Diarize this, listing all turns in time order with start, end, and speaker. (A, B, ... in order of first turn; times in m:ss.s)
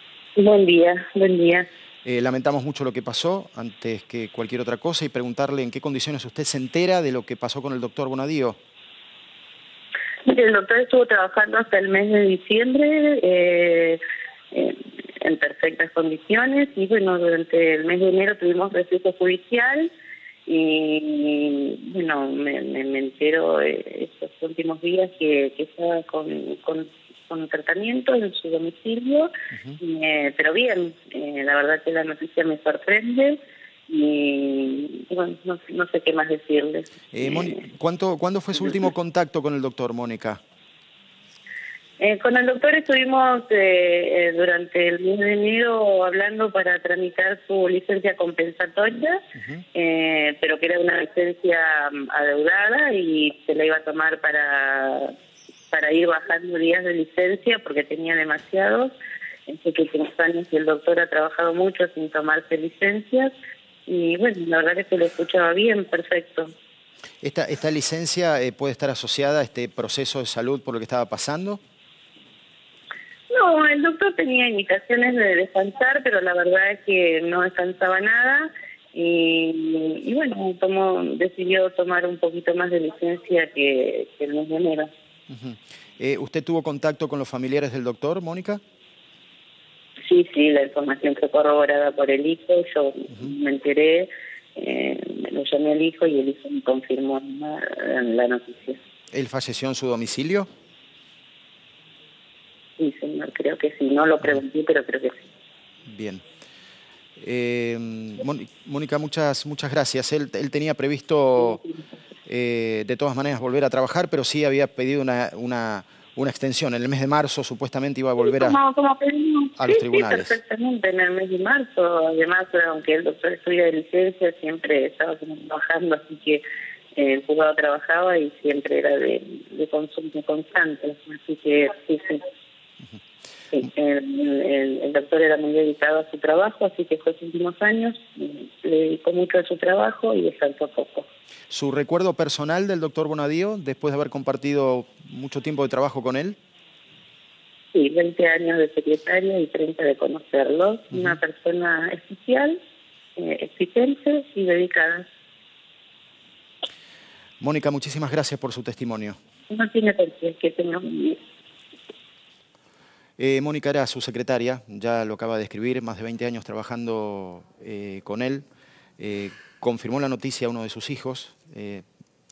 0:00.4-0:01.7 A
0:02.1-0:08.6 B
0:10.2-0:19.9 A
0:20.5-0:37.6 A
0:37.1-0:40.4 B
0:42.0-0:49.2 A
0:49.4-0:49.6 B
0:49.7-0:55.1 A
0:55.7-0:58.9 A
0:59.5-1:03.3 A
1:03.9-1:06.5 A
1:07.2-1:11.6 B
1:13.3-1:24.9 A
1:25.3-1:28.6 B
1:30.1-1:38.8 A
1:39.1-1:40.5 B
1:42.8-1:45.2 A
1:45.9-1:46.2 B
1:47.2-1:51.6 B
1:51.4-1:51.8 A
1:52.3-1:58.6 B
1:58.2-2:06.4 A
1:59.6-2:00.4 B
2:07.0-2:12.3 A
2:13.5-2:21.1 A
2:21.5-2:26.4 B
2:27.7-2:32.6 A
2:33.2-2:35.1 A
2:37.4-2:39.2 B
2:39.5-2:41.2 A
2:43.2-2:48.4 B
2:49.0-2:51.8 B